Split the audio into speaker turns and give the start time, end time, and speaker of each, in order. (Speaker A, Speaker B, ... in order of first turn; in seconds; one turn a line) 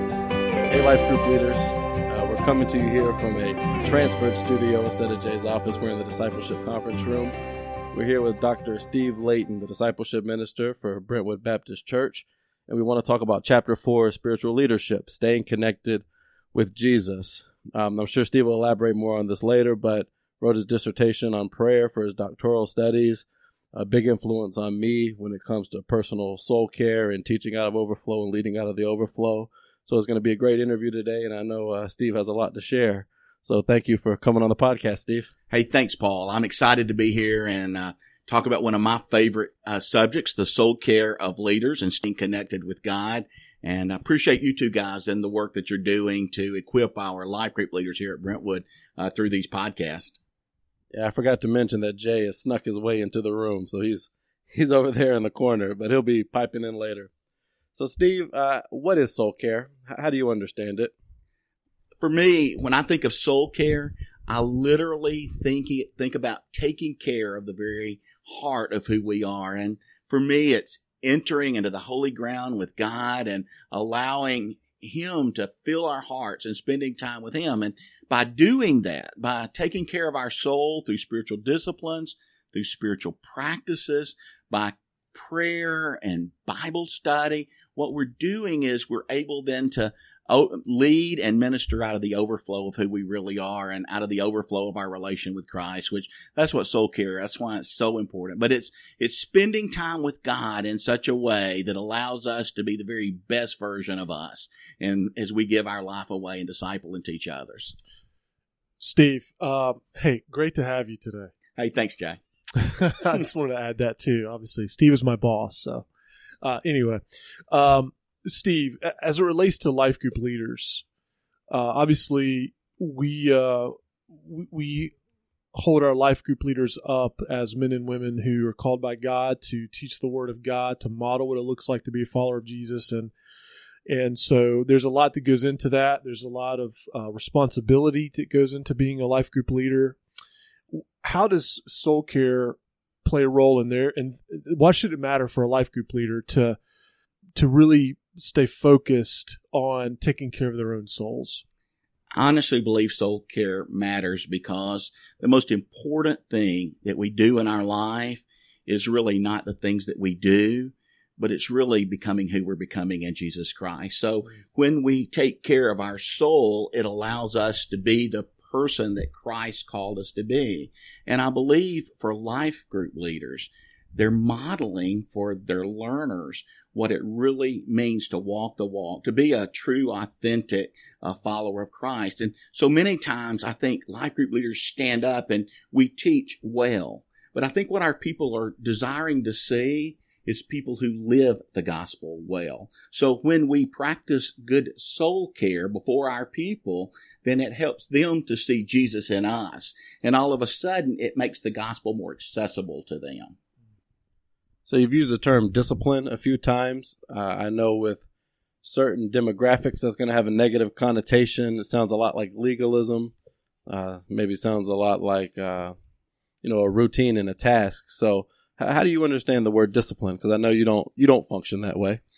Speaker A: 0.7-7.3
Speaker A: 7.9-35.3
Speaker B: 35.5-50.2
Speaker A: 50.9-57.1
Speaker A: 57.7-60.9
Speaker B: 62.0-107.8
Speaker C: 108.8-111.3
Speaker B: 111.5-112.2
Speaker C: 112.6-115.9
Speaker C: 116.4-120.8
Speaker C: 121.5-124.9
Speaker C: 125.5-133.1
Speaker C: 133.9-140.0
Speaker C: 140.7-146.6
Speaker C: 147.3-151.4
Speaker B: 152.1-203.3
Speaker A: 204.7-208.1
Speaker A: 208.6-213.1
Speaker A: 213.7-215.7
Speaker A: 216.4-222.0